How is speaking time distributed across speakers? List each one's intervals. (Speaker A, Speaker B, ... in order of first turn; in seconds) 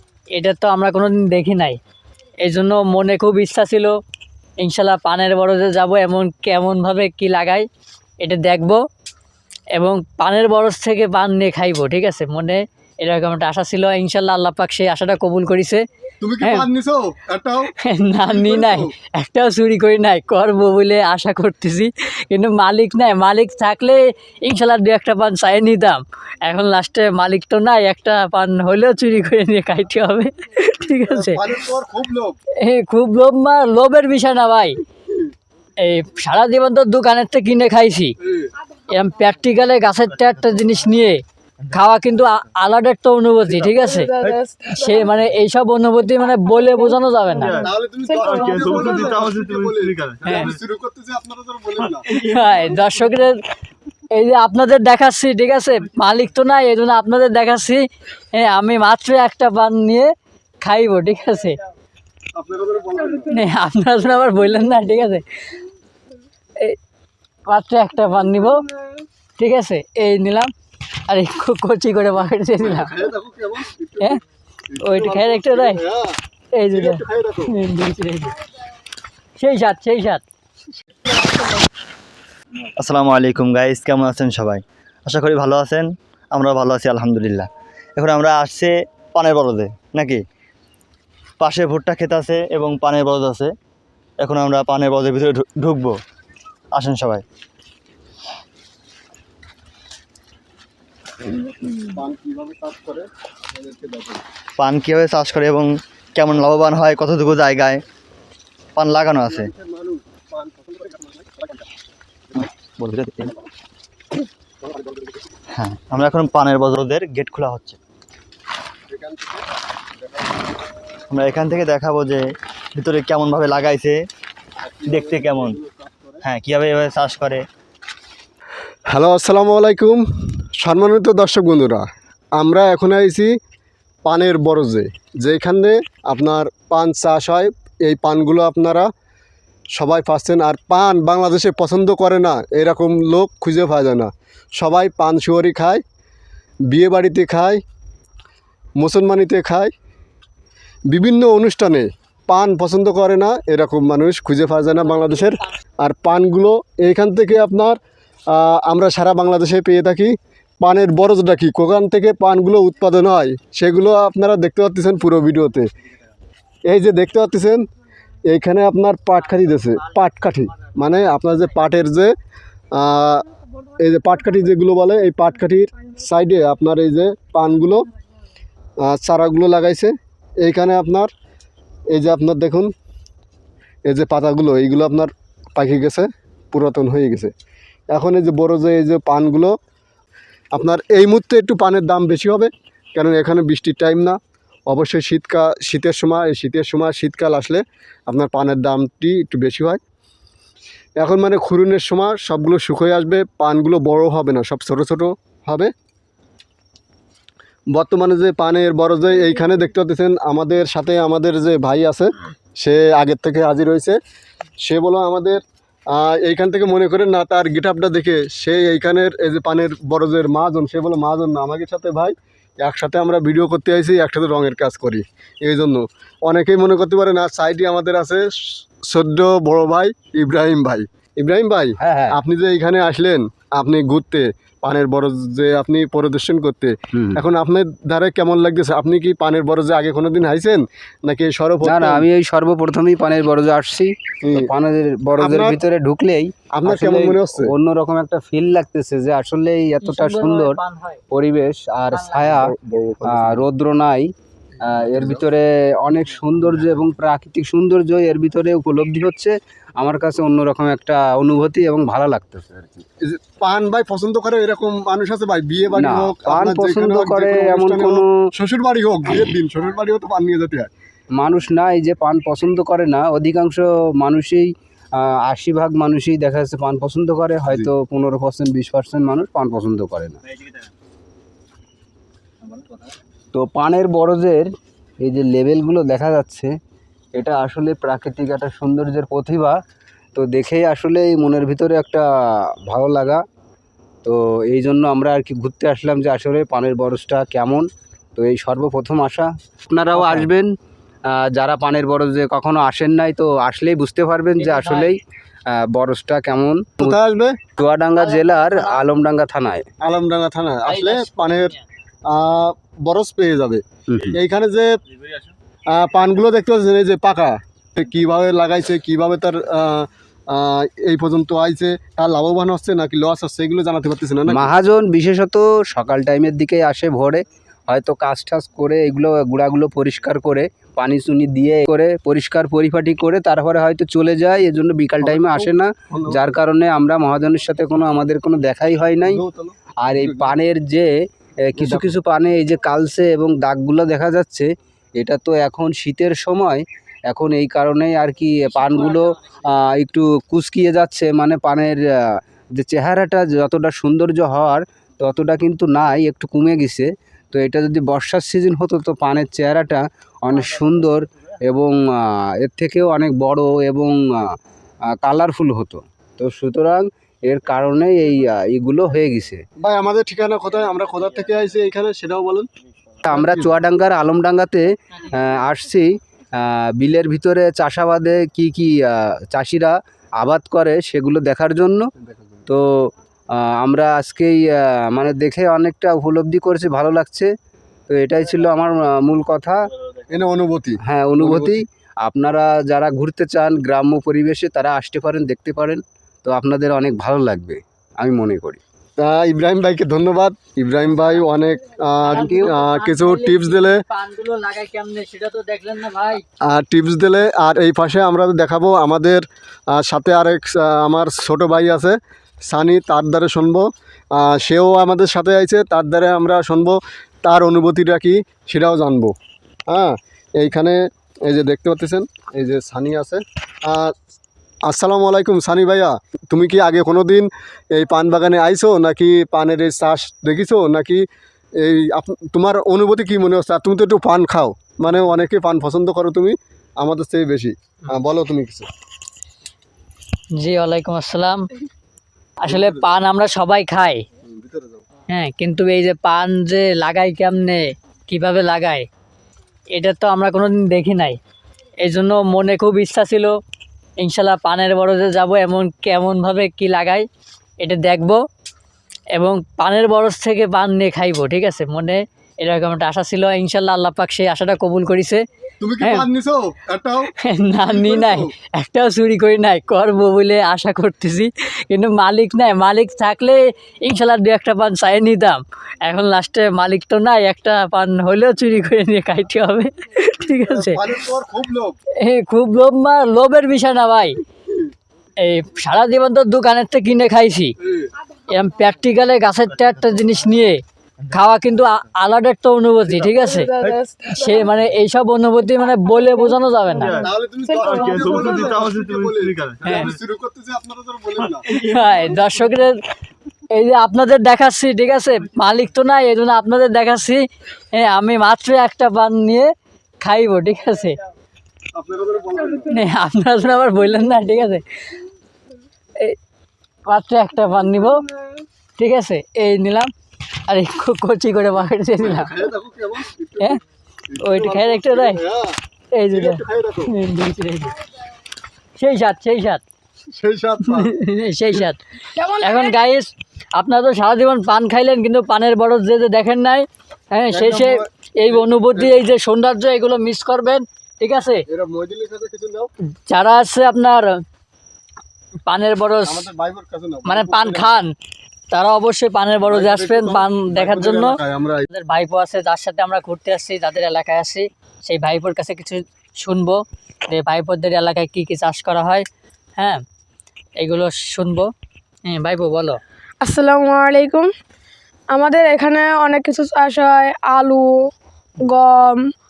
Speaker A: 0.3-1.8, 2.4-3.9, 4.6-7.7, 8.2-8.8, 9.7-15.8, 17.8-31.4, 32.6-34.8, 35.8-38.1, 38.9-44.1, 44.7-47.6, 50.2-50.5, 52.1-53.4, 54.1-60.1, 60.6-61.6, 63.3-65.2, 67.5-68.6, 69.4-70.5, 71.1-72.9, 74.8-75.8, 76.5-78.4, 79.4-80.2, 169.3-170.0, 249.8-251.0, 304.4-304.9, 310.6-311.6, 402.1-406.2, 440.3-441.5, 442.4-444.0, 445.1-448.9, 449.8-451.2, 451.8-453.3, 454.0-457.1, 457.6-458.2, 459.1-465.2, 467.2-480.8, 482.0-484.2, 485.2-487.5, 488.3-493.5, 494.1-497.0, 501.5-502.8, 503.5-509.5, 510.0-511.0, 512.7-514.6, 516.9-518.0, 518.8-519.9, 520.5-522.3, 524.2-525.2, 525.9-527.8, 528.8-529.6, 530.7-541.4, 543.1-544.2, 545.5-546.2, 547.0-547.9, 548.5-551.2, 551.7-559.0, 560.6-561.5, 562.0-562.8
Speaker B: 16.2-17.7, 18.2-18.9, 31.0-32.4, 38.2-38.5, 47.6-52.0, 62.4-63.3, 72.6-74.2, 74.7-76.2, 76.7-77.5, 101.4-104.2, 109.2-111.6, 114.6-115.1, 118.9-119.4, 124.6-126.2, 128.9-131.8, 132.4-133.3, 134.0-138.9, 139.8-145.8, 146.7-147.6, 148.8-149.7, 150.9-157.8, 158.3-165.7, 166.7-167.6, 168.3-172.1, 172.7-173.2, 173.8-177.8, 178.8-181.1, 181.9-182.7, 183.9-187.3, 187.9-189.5, 190.5-199.8, 201.0-205.7, 207.7-214.0, 214.6-215.4, 215.9-242.1, 244.2-244.5, 245.2-245.6, 246.6-247.5, 252.2-253.4, 254.7-255.2, 263.0-270.7, 299.9-300.3, 306.8-307.4, 309.8-311.5, 312.1-314.7, 315.7-324.5, 335.0-336.2, 339.0-340.4, 341.6-341.9, 369.6-372.5, 373.1-373.5, 382.0-382.4, 390.1-391.6, 399.0-403.8, 406.5-412.0, 412.5-419.1, 419.7-423.9, 424.7-431.0, 431.6-438.7, 442.4-443.0, 444.2-444.8, 465.6-468.3, 480.4-481.8, 487.6-487.9, 497.0-501.4, 511.8-512.8, 522.0-525.6, 526.1-526.9, 530.1-530.9, 537.3-539.0, 541.5-542.7, 546.0-547.7, 549.5-551.6
Speaker C: 43.8-44.6, 493.2-494.4, 497.6-498.0, 532.2-532.6, 563.2-564.3, 565.1-567.9, 568.4-569.0
Speaker D: 48.2-50.5, 82.8-90.2, 91.4-93.5, 94.2-95.9, 96.7-97.2, 104.6-107.8, 108.8-109.5, 112.4-113.3, 115.5-117.8, 121.1-122.2, 122.8-124.0, 124.9-125.6, 126.2-127.4, 496.8-499.9
Speaker E: 231.8-232.2, 236.9-237.2, 241.6-250.6, 251.1-252.5, 253.0-254.1, 254.6-262.8, 265.8-268.1, 271.1-280.2, 283.3-284.5, 285.0-286.5, 287.1-289.6, 290.1-292.0, 292.7-293.2, 294.0-300.5, 301.1-307.0, 307.6-309.6, 313.9-314.2, 324.3-339.2, 339.8-340.9, 341.5-364.3, 364.9-369.4, 373.0-381.9, 382.5-387.3, 387.9-389.6, 390.8-398.6, 402.1-402.5